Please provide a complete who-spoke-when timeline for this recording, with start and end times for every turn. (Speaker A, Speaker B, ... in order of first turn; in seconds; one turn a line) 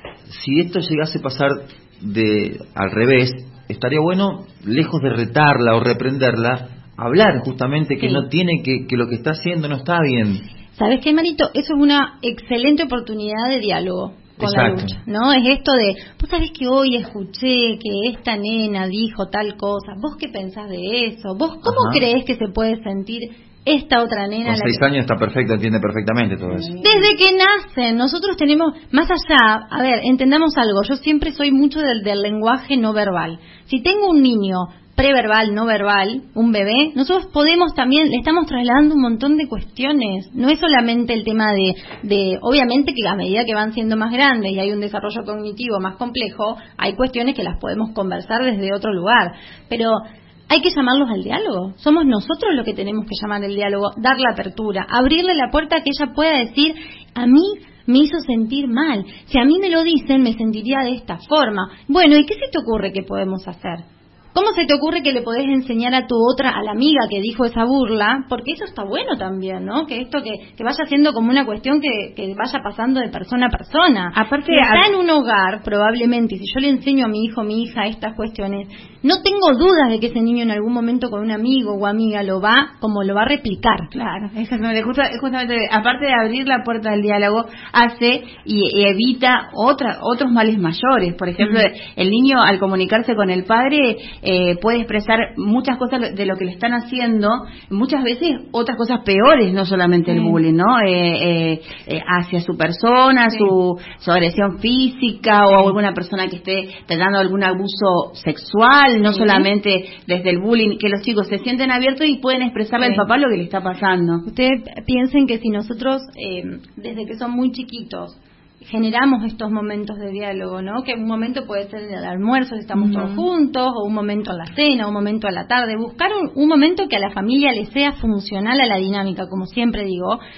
Speaker A: 0.3-10.4
Speaker B: 8.0-8.3
Speaker B: 10.8-24.8
Speaker A: 14.4-15.0
Speaker A: 21.6-22.0
Speaker A: 24.4-26.7
Speaker C: 26.6-27.0
Speaker B: 26.8-83.9
Speaker C: 74.1-74.9
Speaker C: 83.9-114.2
Speaker B: 91.4-91.7
Speaker B: 100.1-100.4
Speaker B: 109.0-109.5
Speaker B: 112.8-113.1
Speaker B: 114.2-130.2
Speaker C: 122.8-123.3